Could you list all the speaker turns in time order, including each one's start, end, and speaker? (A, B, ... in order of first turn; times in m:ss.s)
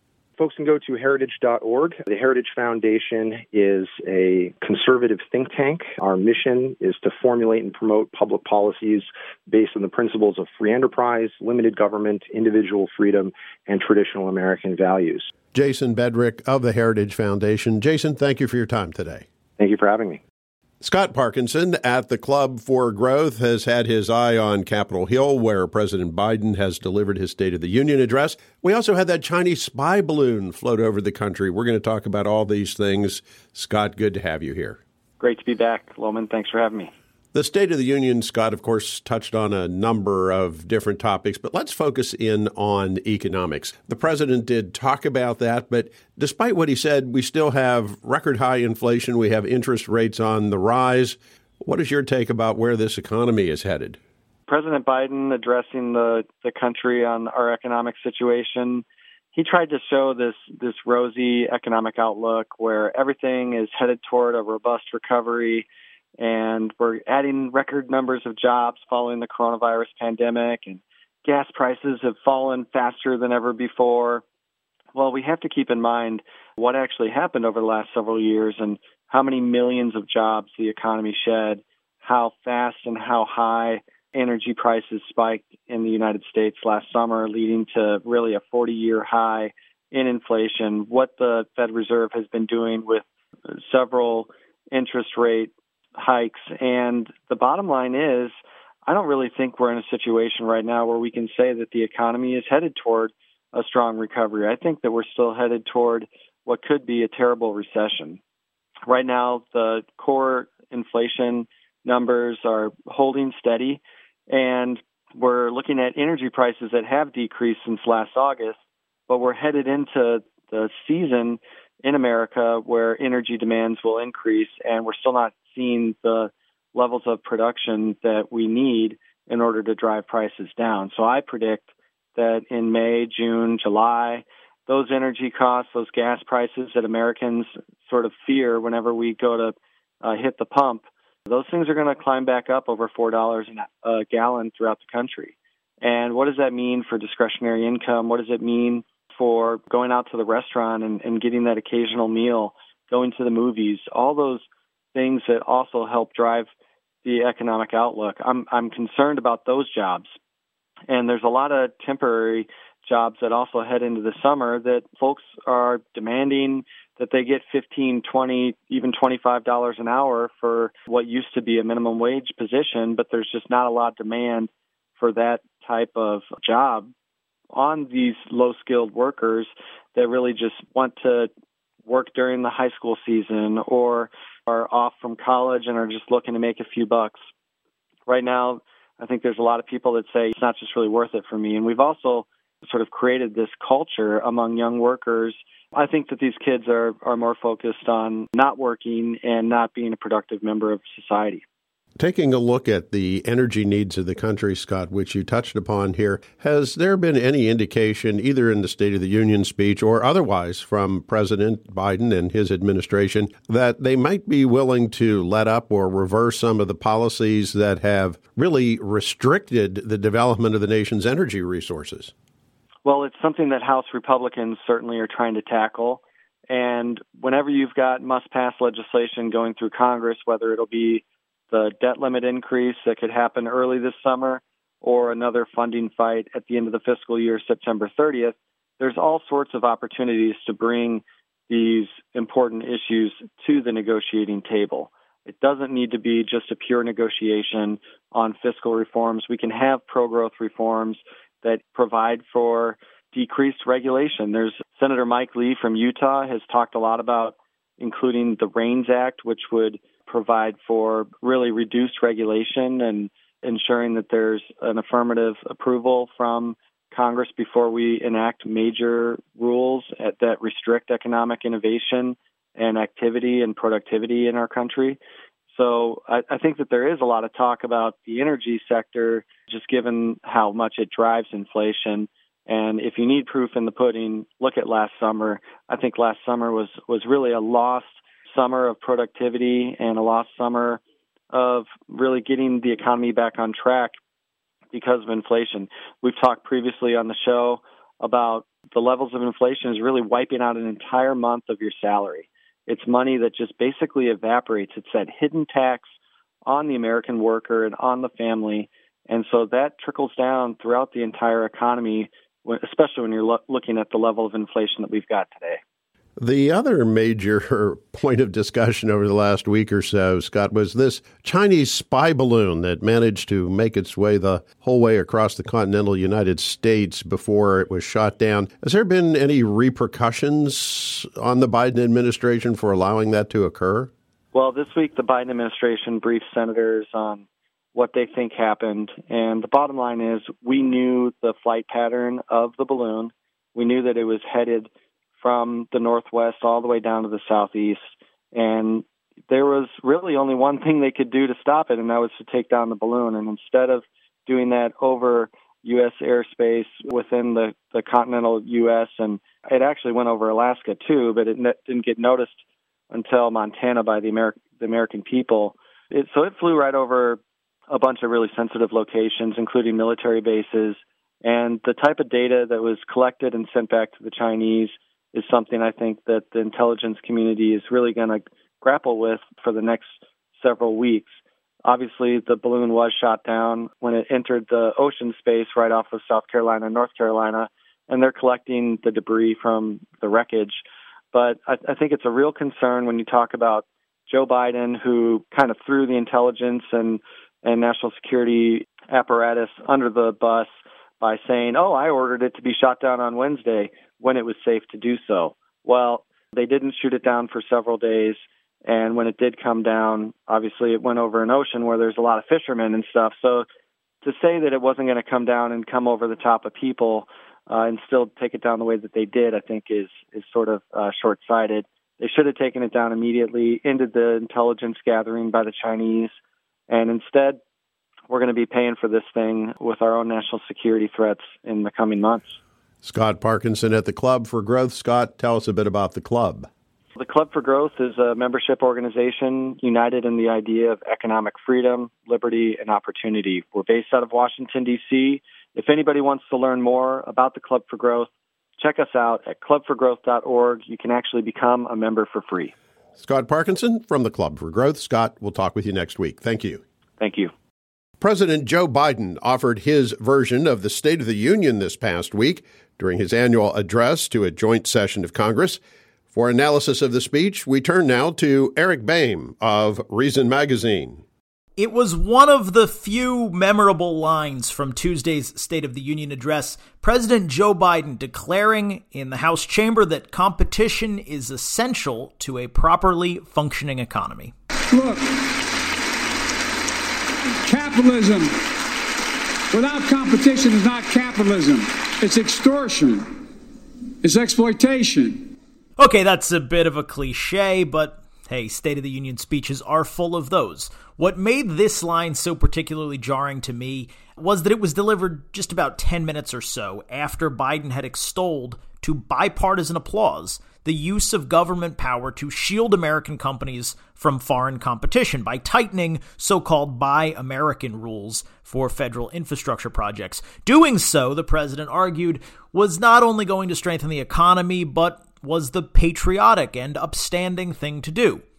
0:00.4-0:15.3 A
0:15.5-0:19.2 B
0:19.6-0:20.2 A
0:20.8-0:34.8 B
0:35.2-0:36.9 C
0:37.3-0:54.0 B
0:54.5-1:05.6 C
1:06.2-1:14.2 C
1:14.9-1:38.3 C
1:38.8-1:48.2 C
1:48.9-1:58.6 C
1:59.1-2:36.5 C
2:37.0-2:40.1 C
2:40.9-2:56.9 C
2:57.5-3:01.3 C
3:01.8-3:07.2 C
3:08.1-3:21.4 C
3:22.0-3:42.1 B
3:42.8-4:35.0 C
4:35.5-4:53.9 C
4:54.7-5:05.9 C
5:06.4-5:15.6 C
5:16.2-5:33.9 B
5:34.3-5:44.7 C
5:45.2-5:47.8 C
5:48.3-6:02.4 C
6:02.9-6:21.1 C
6:21.6-6:30.6 C
6:31.1-6:40.5 C
6:41.0-6:53.4 C
6:54.0-7:06.1 C
7:06.7-7:07.4 C
7:08.1-7:12.4 C
7:12.8-7:16.5 B
7:17.0-7:32.5 C
7:33.0-7:36.6 B
7:37.0-7:37.3 C
7:38.0-7:45.6 B
7:46.1-7:51.0 B
7:51.6-8:04.3 D
8:04.7-8:05.4 E
8:07.4-8:08.3 E
8:09.5-8:13.1 E
8:14.0-8:15.3 E
8:15.8-8:48.2 D